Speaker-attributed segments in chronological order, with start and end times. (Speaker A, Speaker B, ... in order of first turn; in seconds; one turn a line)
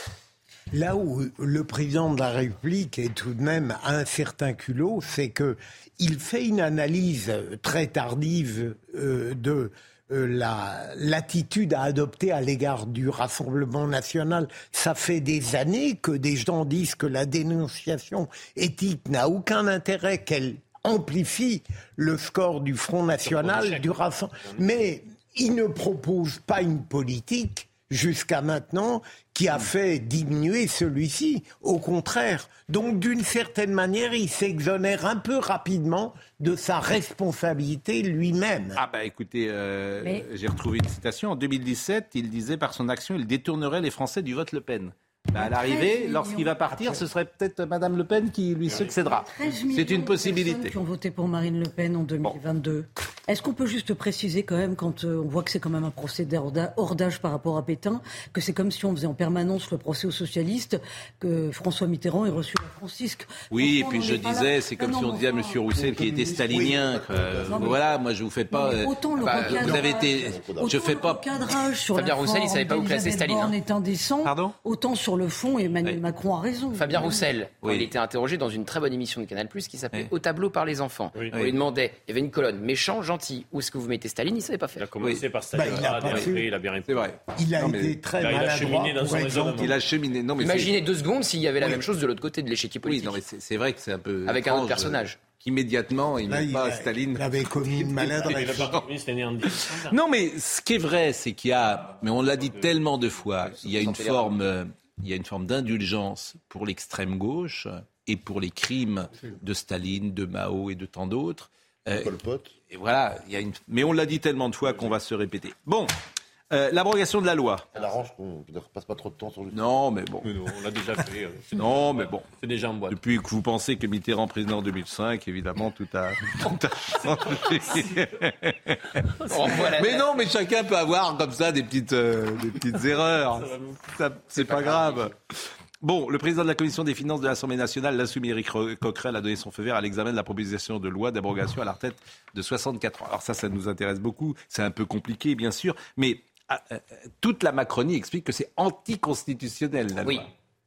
Speaker A: 0.7-38.8
Speaker B: 23.2-24.6
Speaker C: 38.8-50.7
Speaker D: 45.3-46.6
Speaker D: 49.1-65.6
Speaker C: 63.5-71.2
Speaker E: 65.7-67.8
Speaker D: 67.5-67.8
Speaker D: 68.5-77.2
Speaker F: 69.2-69.7
Speaker E: 69.6-70.9
Speaker F: 71.9-73.5
Speaker C: 74.2-74.5
Speaker F: 76.7-84.9
Speaker C: 77.6-77.9
Speaker B: 84.8-87.1
Speaker A: 85.5-86.5
Speaker C: 86.0-86.3
Speaker C: 86.9-88.0
Speaker A: 87.3-89.7
Speaker B: 88.2-89.7
Speaker C: 89.4-90.7
Speaker F: 90.4-93.2
Speaker C: 92.8-98.8
Speaker F: 94.2-95.2
Speaker A: 96.2-98.8
Speaker B: 98.2-99.9
Speaker C: 99.5-112.1
Speaker F: 103.6-104.4
Speaker E: 111.9-112.5
Speaker C: 112.7-115.9
Speaker C: 116.5-117.7
Speaker E: 117.7-119.6
Speaker C: 119.5-120.3
Speaker B: 120.2-123.0
Speaker C: 121.6-122.3
Speaker C: 122.9-135.1
Speaker F: 129.3-130.1
Speaker B: 133.3-133.8
Speaker F: 134.3-135.1
Speaker C: 135.8-150.3
Speaker F: 150.0-150.3